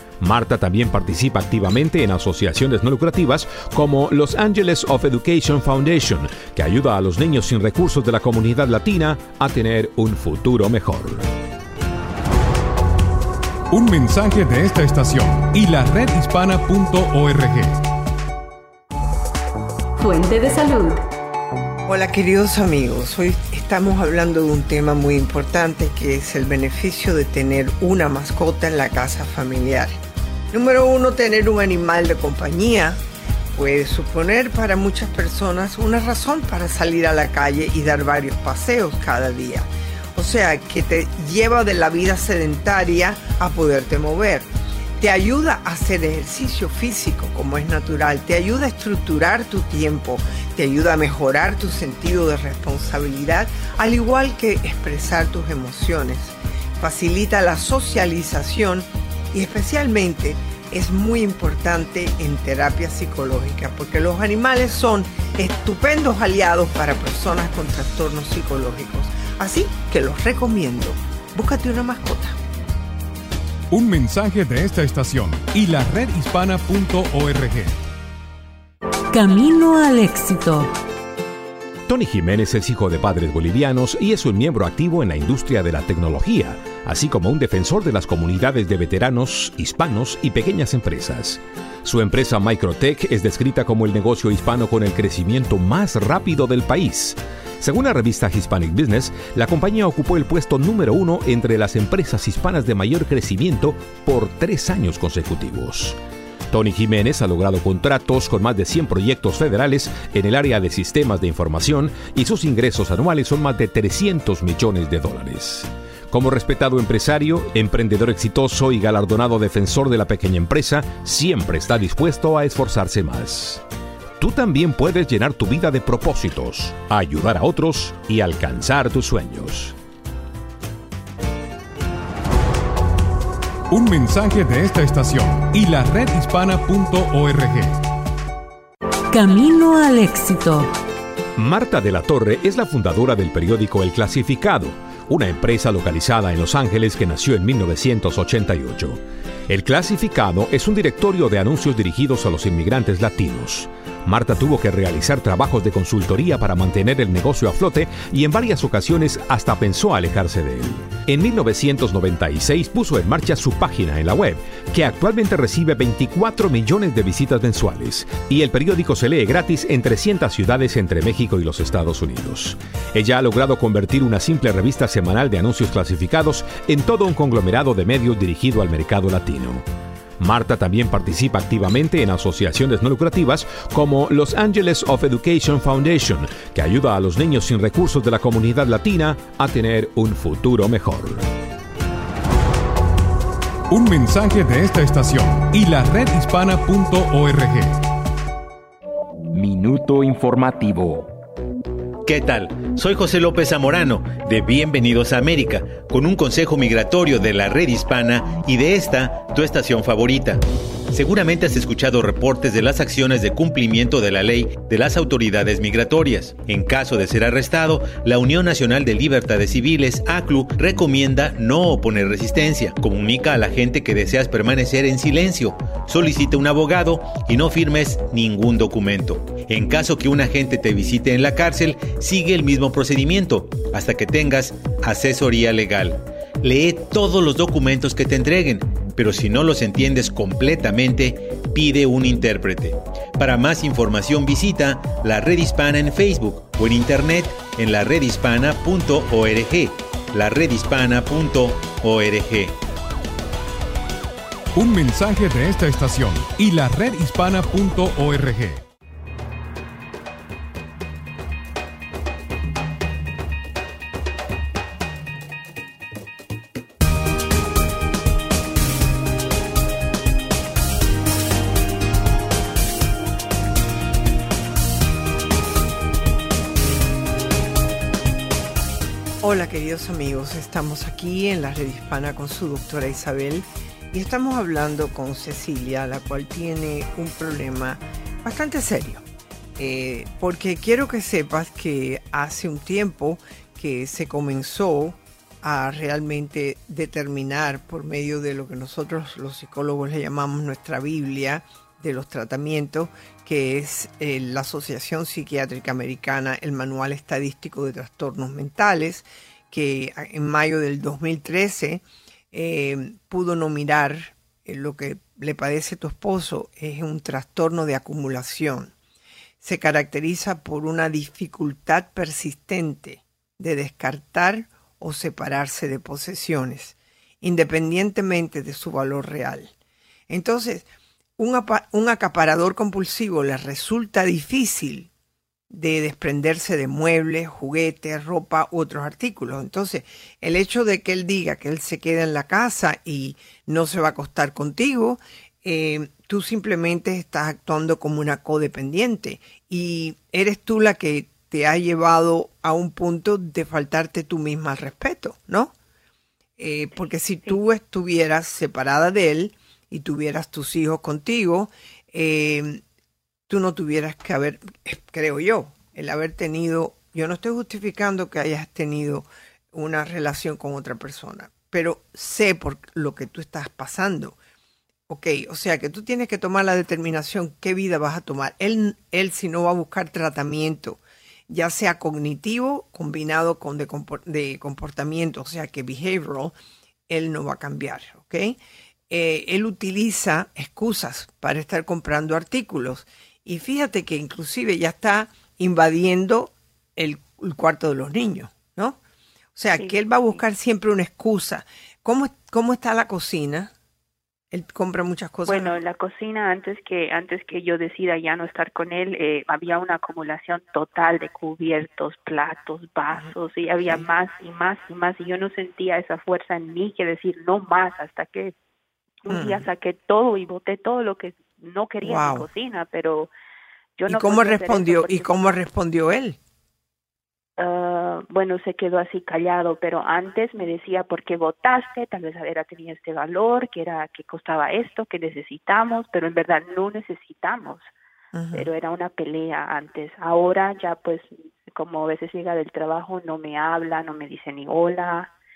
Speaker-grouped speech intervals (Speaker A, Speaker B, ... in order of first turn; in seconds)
Speaker A: 0.2-11.3, 81.9-106.0, 106.5-123.6, 124.2-129.8, 141.3-179.7, 180.2-191.3, 199.3-201.1
Speaker B: 13.7-17.8, 73.7-77.8, 133.7-137.8, 193.7-197.8, 254.5-258.6
Speaker C: 20.0-21.1, 79.1-80.7, 139.1-140.7
Speaker D: 21.9-29.9, 30.5-33.0, 33.5-72.4, 279.2-289.0, 289.6-318.7, 319.4-329.5, 330.1-330.6, 331.2-334.9, 335.5-355.5, 356.4-362.6, 363.3-374.2, 374.9-386.3, 386.9-388.4, 388.9-398.8, 399.3-403.5, 404.3-405.6, 419.1-419.4, 421.8-422.3, 423.9-426.2, 438.1-438.5
Speaker E: 202.0-252.6
Speaker F: 405.3-418.3, 419.0-423.1, 423.8-425.1, 427.4-437.7, 438.3-445.1